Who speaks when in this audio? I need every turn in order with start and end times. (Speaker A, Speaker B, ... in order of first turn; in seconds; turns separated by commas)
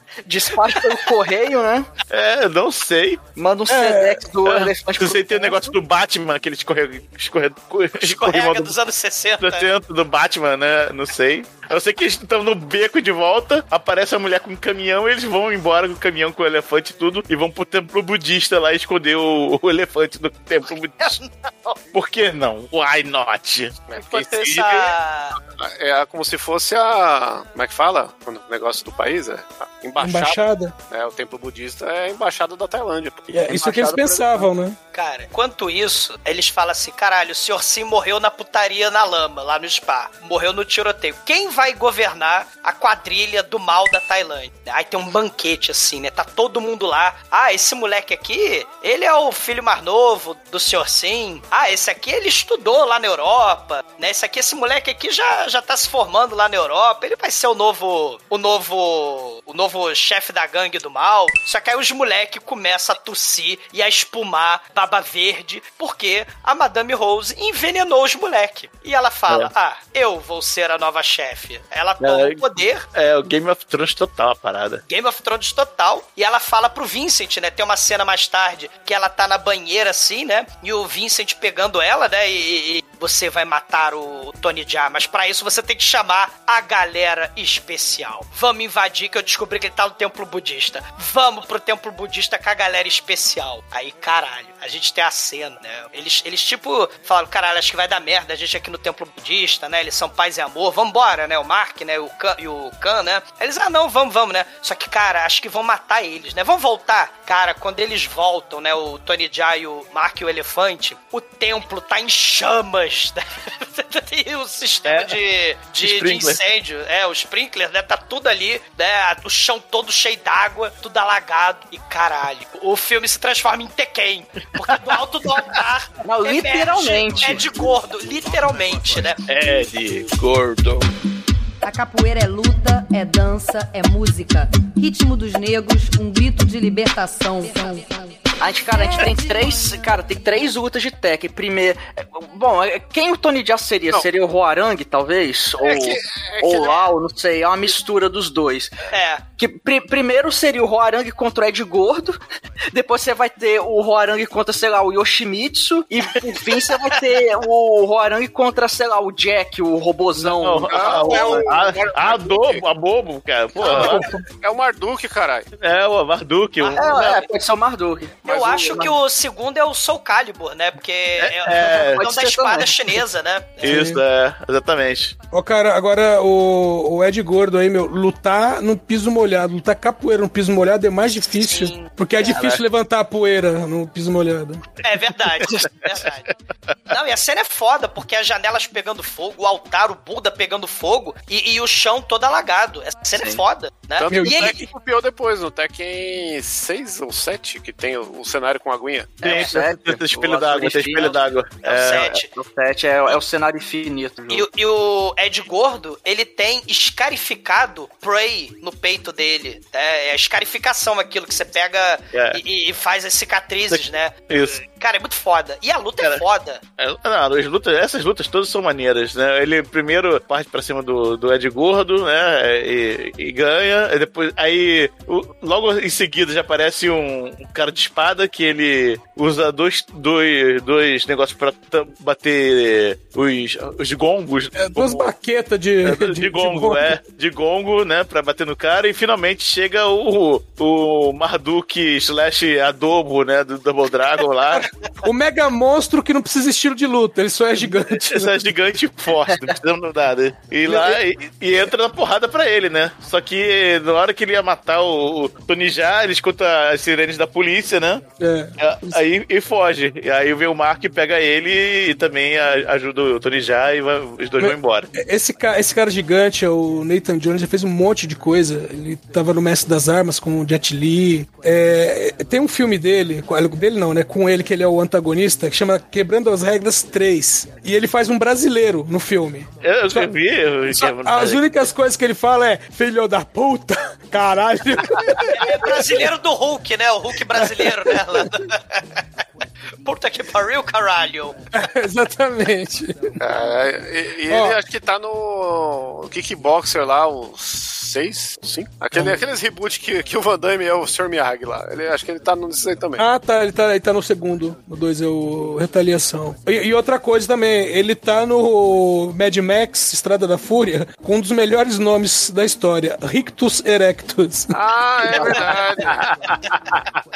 Speaker A: 0.3-1.9, Speaker B: 2.1-3.2, Speaker A: 3.4-5.6, Speaker C: 3.7-4.3, Speaker B: 4.4-8.7, Speaker D: 8.0-9.7, Speaker B: 9.4-21.1, Speaker D: 21.0-21.8, Speaker B: 21.9-23.8, Speaker E: 23.9-34.4, Speaker D: 23.9-25.4, Speaker C: 30.0-30.7, Speaker C: 33.3-34.8, Speaker A: 33.6-34.0, Speaker D: 34.9-72.8, Speaker B: 72.0-74.8, Speaker D: 74.9-129.2, Speaker B: 114.8-115.1, Speaker B: 115.8-116.4, Speaker A: 126.0-127.5, Speaker B: 129.3-130.8, Speaker F: 131.6-138.1, Speaker A: 138.4-148.7, Speaker F: 139.0-139.8, Speaker E: 145.6-146.9, Speaker D: 148.9-149.2, Speaker A: 149.4-152.2, Speaker A: 152.7-161.5, Speaker E: 160.3-162.6, Speaker B: 160.4-164.1, Speaker E: 163.6-165.4, Speaker A: 163.6-164.0, Speaker B: 165.6-167.2, Speaker D: 166.6-167.3, Speaker A: 166.8-168.9, Speaker D: 168.2-173.8, Speaker E: 168.3-168.9, Speaker B: 171.2-172.0, Speaker A: 171.8-172.7, Speaker B: 173.6-175.1, Speaker C: 173.6-174.0, Speaker C: 175.3-184.6, Speaker D: 181.2-181.9, Speaker B: 182.2-182.6, Speaker D: 184.8-186.3, Speaker B: 185.4-185.7, Speaker D: 186.9-194.6, Speaker A: 193.1-193.4, Speaker E: 194.0-199.3, Speaker C: 194.1-194.5, Speaker A: 199.2-201.2, Speaker B: 199.2-202.1, Speaker D: 199.3-199.5, Speaker D: 201.0-202.3, Speaker A: 201.9-204.2, Speaker E: 204.2-204.5, Speaker D: 204.3-216.6, Speaker B: 212.1-212.4, Speaker B: 213.7-214.6, Speaker B: 216.8-235.1, Speaker C: 234.6-237.0, Speaker B: 235.8-244.7, Speaker C: 245.0-248.3, Speaker B: 247.9-258.0, Speaker C: 250.7-251.0, Speaker C: 258.2-258.9, Speaker B: 258.6-264.9, Speaker C: 264.4-280.1, Speaker B: 279.6-281.4, Speaker C: 280.7-285.9, Speaker D: 285.3-289.0, Speaker C: 287.4-288.2, Speaker D: 289.9-291.4, Speaker C: 291.6-293.2, Speaker E: 293.2-303.0, Speaker C: 294.3-294.6, Speaker C: 303.0-314.6, Speaker E: 314.5-316.1, Speaker D: 315.2-315.6, Speaker B: 315.2-316.8